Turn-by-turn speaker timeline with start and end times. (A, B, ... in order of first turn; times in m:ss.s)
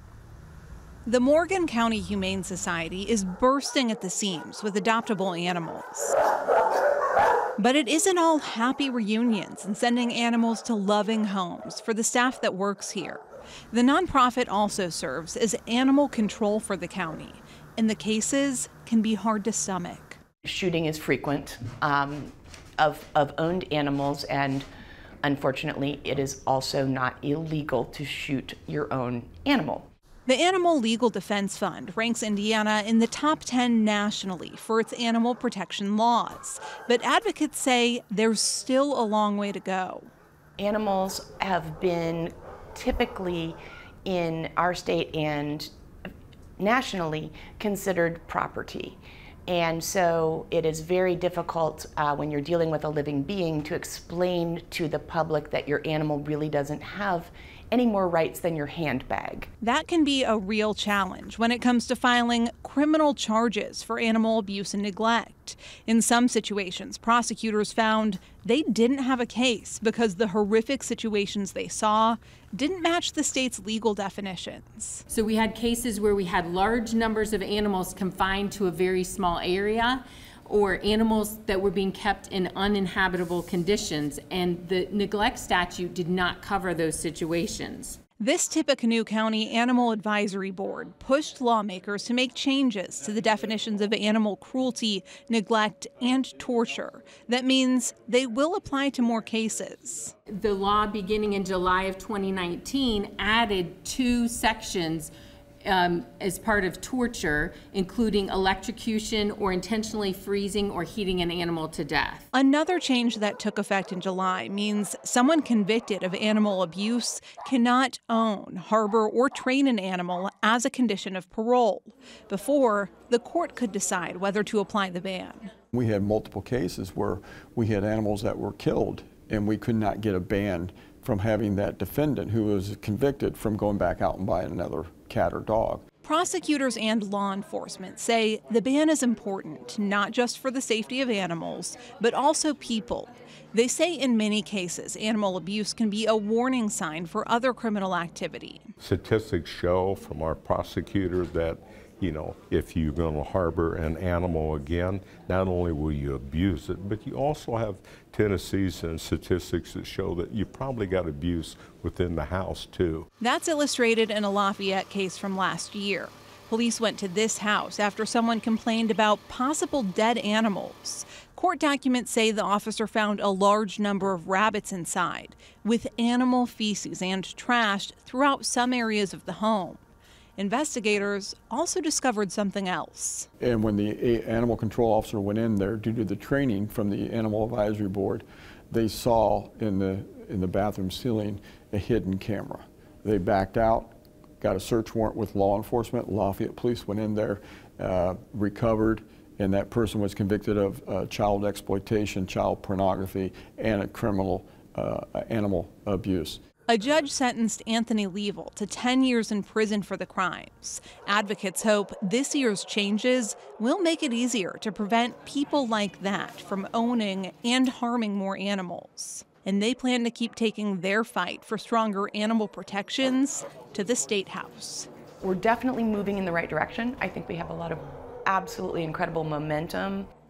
0:01.0-0:06.1 A
0:07.6-0:20.2 A
0:20.4-0:24.6 B
0:25.2-0:29.9 B
0:30.3-0:40.1 A
0:40.6-0:45.7 B
0:46.6-0:59.5 B
0:59.6-1:15.0 A
1:15.1-1:28.0 C
1:28.2-1:40.1 A
1:40.3-1:45.1 C
1:45.6-1:52.2 C
1:52.3-2:05.5 A
2:05.7-2:15.8 D
2:16.0-2:28.7 A
2:28.8-2:43.1 E
2:43.2-2:59.8 A
3:00.4-3:03.3 A
3:03.4-3:26.4 D
3:26.7-3:44.9 A
3:45.2-3:50.1 B